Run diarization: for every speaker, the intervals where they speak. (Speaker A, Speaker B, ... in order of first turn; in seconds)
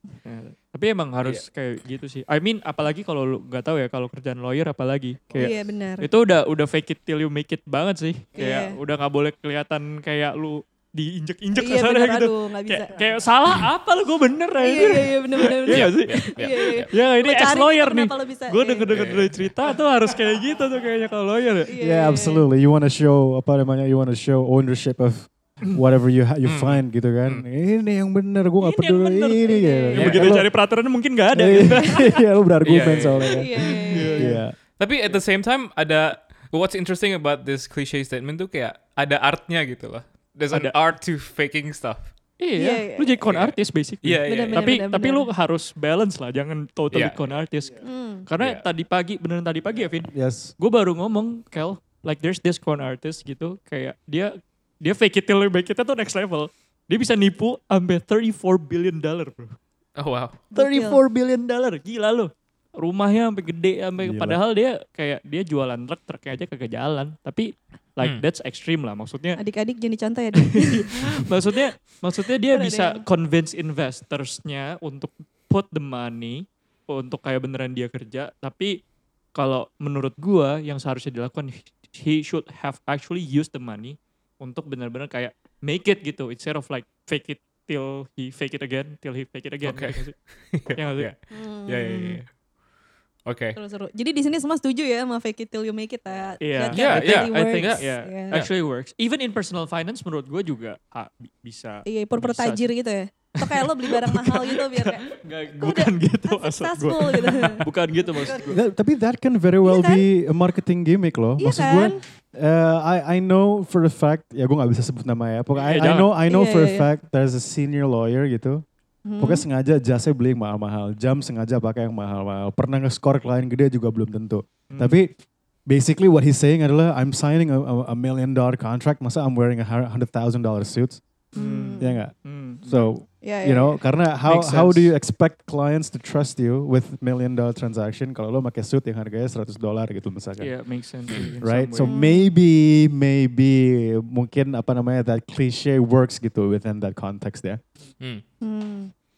Speaker A: 0.2-21.7, 28.6-32.2, 32.8-33.2, 33.9-34.4, 40.5-40.7, 42.4-59.5, 60.5-69.4, 70.5-78.7, 79.3-91.1, 96.4-102.8, 103.4-108.6, 115.5-116.1, 124.7-125.0, 131.3-132.9, 134.2-134.9, 140.4-142.0
Speaker B: 5.3-6.1, 8.3-8.8, 11.5-13.0, 14.6-18.9, 21.7-22.4, 29.4-30.2, 33.3-34.4, 42.5-43.2, 44.3-45.3, 47.8-48.2, 60.5-61.0, 69.4-70.9, 72.5-73.0, 91.3-92.2, 93.5-98.3, 101.8-107.6, 109.6-110.0, 111.4-112.0, 116.2-116.9, 119.0-119.4, 131.3-132.0, 133.2-133.8, 141.8-142.3, 148.4-148.9
Speaker C: 15.6-16.9, 18.9-19.3, 26.4-27.4, 30.0-30.3, 32.6-33.3, 34.8-42.1, 43.2-44.7, 46.9-47.3, 48.4-48.6, 60.0-60.4, 89.6-92.3, 93.2-93.6, 96.7-98.5
Speaker D: 21.8-30.7, 31.3-34.5, 50.1-50.5, 64.0-64.4, 108.3-118.6, 119.2-125.1, 125.7-131.0, 131.8-140.5, 141.4-147.6